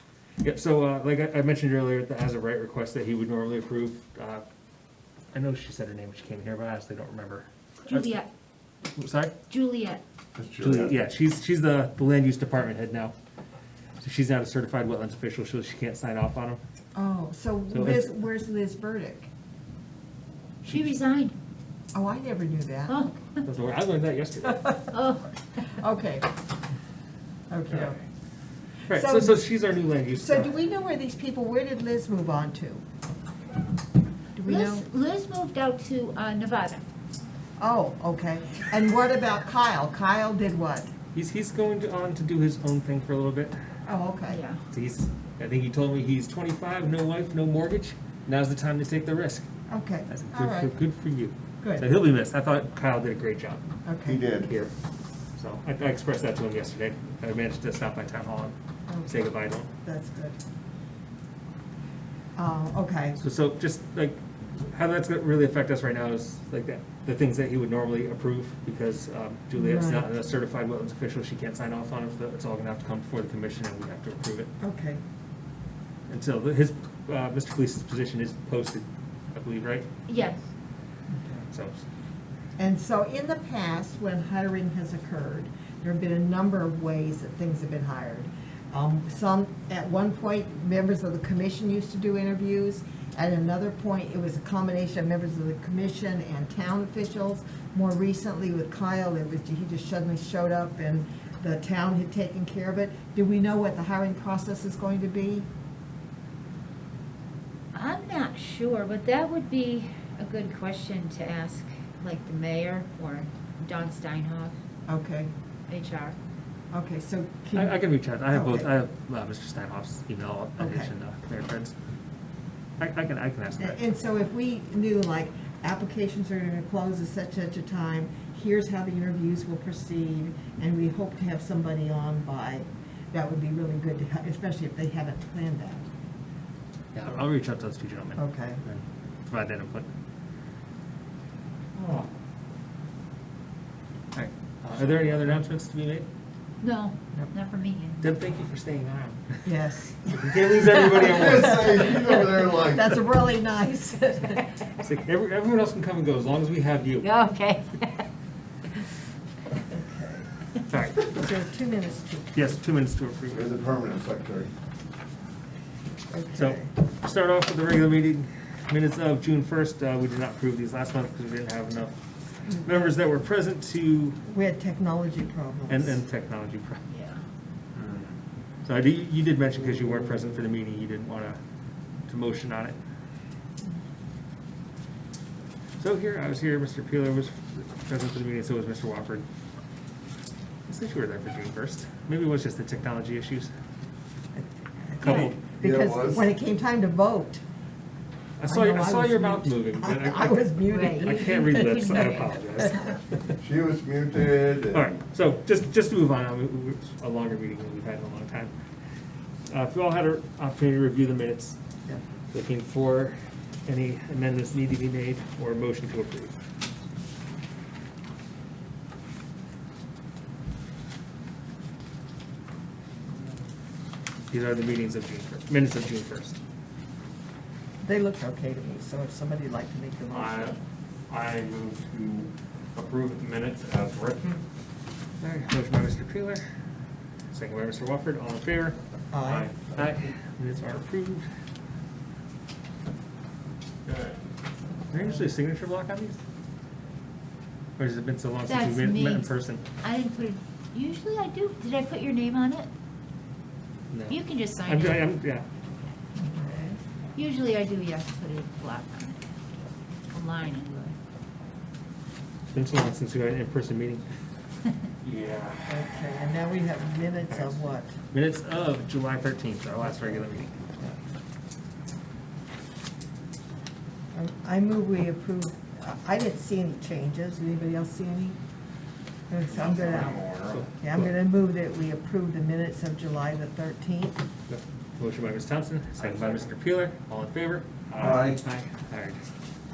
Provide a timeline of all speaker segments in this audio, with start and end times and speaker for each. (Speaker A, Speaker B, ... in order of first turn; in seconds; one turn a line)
Speaker A: 0.4-4.4
Speaker A: 5.3-8.1
Speaker B: 7.8-8.3
Speaker A: 8.9-9.3
Speaker B: 9.5-10.0
Speaker C: 10.4-11.0
Speaker A: 10.6-13.1
Speaker A: 14.0-16.6
Speaker D: 16.9-19.3
Speaker A: 17.7-18.1
Speaker B: 20.7-21.4
Speaker D: 21.9-23.1
Speaker B: 22.9-23.2
Speaker A: 23.4-24.9
Speaker B: 24.9-25.4
Speaker D: 25.7-26.3
Speaker D: 27.5-28.0
Speaker A: 28.9-30.5
Speaker D: 28.9-29.4
Speaker D: 30.1-32.8
Speaker D: 34.4-34.8
Speaker B: 34.5-36.8
Speaker D: 37.6-40.9
Speaker A: 41.1-43.5
Speaker D: 43.9-44.4
Speaker B: 44.3-44.6
Speaker A: 44.7-49.5
Speaker D: 49.7-50.7
Speaker A: 50.1-53.6
Speaker D: 53.9-54.5
Speaker C: 54.0-54.5
Speaker A: 55.4-58.5
Speaker D: 58.9-59.3
Speaker A: 59.1-59.7
Speaker D: 59.8-60.4
Speaker D: 62.4-63.2
Speaker A: 63.2-74.5
Speaker D: 69.5-70.1
Speaker D: 74.6-75.0
Speaker A: 76.1-79.9
Speaker B: 80.1-80.4
Speaker D: 81.1-81.5
Speaker A: 81.5-81.8
Speaker D: 82.6-105.5
Speaker B: 107.7-114.5
Speaker D: 114.9-115.3
Speaker B: 115.7-116.2
Speaker D: 116.7-118.7
Speaker A: 117.6-121.7
Speaker D: 120.6-120.9
Speaker A: 122.8-123.8
Speaker D: 123.6-135.9
Speaker A: 136.9-139.9
Speaker D: 138.2-138.6
Speaker A: 144.6-146.1
Speaker B: 146.6-148.0
Speaker A: 148.0-149.2
Speaker D: 149.4-154.5
Speaker A: 150.1-152.1
Speaker C: 150.9-153.0
Speaker A: 154.8-157.1
Speaker B: 157.0-158.1
Speaker D: 159.7-160.3
Speaker A: 160.7-161.1
Speaker D: 161.0-162.4
Speaker A: 162.3-163.5
Speaker C: 163.3-164.5
Speaker D: 166.1-166.7
Speaker A: 166.3-171.9
Speaker A: 172.6-174.2
Speaker D: 174.3-176.0
Speaker A: 175.7-176.8
Speaker B: 176.9-177.2
Speaker E: 177.8-178.1
Speaker A: 178.7-181.4
Speaker A: 182.1-182.8
Speaker A: 185.8-189.3
Speaker A: 190.7-193.5
Speaker D: 194.3-197.4
Speaker A: 195.0-195.4
Speaker B: 195.0-195.3
Speaker C: 195.6-196.3
Speaker A: 198.4-203.3
Speaker D: 198.4-202.9
Speaker B: 200.7-202.3
Speaker C: 203.4-205.0
Speaker A: 204.7-208.5
Speaker A: 209.5-211.6
Speaker A: 212.3-213.2
Speaker A: 213.7-216.3
Speaker A: 224.3-226.4
Speaker D: 227.8-230.6
Speaker E: 230.1-230.6
Speaker E: 231.1-234.4
Speaker A: 235.2-236.4
Speaker A: 237.3-238.8
Speaker D: 239.1-239.5
Speaker E: 239.3-239.7
Speaker A: 239.8-241.3
Speaker E: 243.9-244.2
Speaker A: 244.9-246.2
Speaker A: 247.8-249.6
Speaker B: 248.5-252.7
Speaker A: 253.9-255.4
Speaker B: 254.1-255.1
Speaker D: 256.2-256.8
Speaker B: 257.2-259.3
Speaker B: 260.1-261.0
Speaker A: 262.5-264.0
Speaker E: 265.1-265.5
Speaker D: 265.7-267.9
Speaker A: 268.1-270.6
Speaker D: 269.8-271.0
Speaker D: 274.1-278.4
Speaker D: 279.3-280.2
Speaker E: 279.5-280.7
Speaker A: 280.5-281.1
Speaker D: 280.8-284.2
Speaker A: 284.5-289.2
Speaker E: 286.0-286.4
Speaker E: 287.9-288.4
Speaker C: 288.0-288.4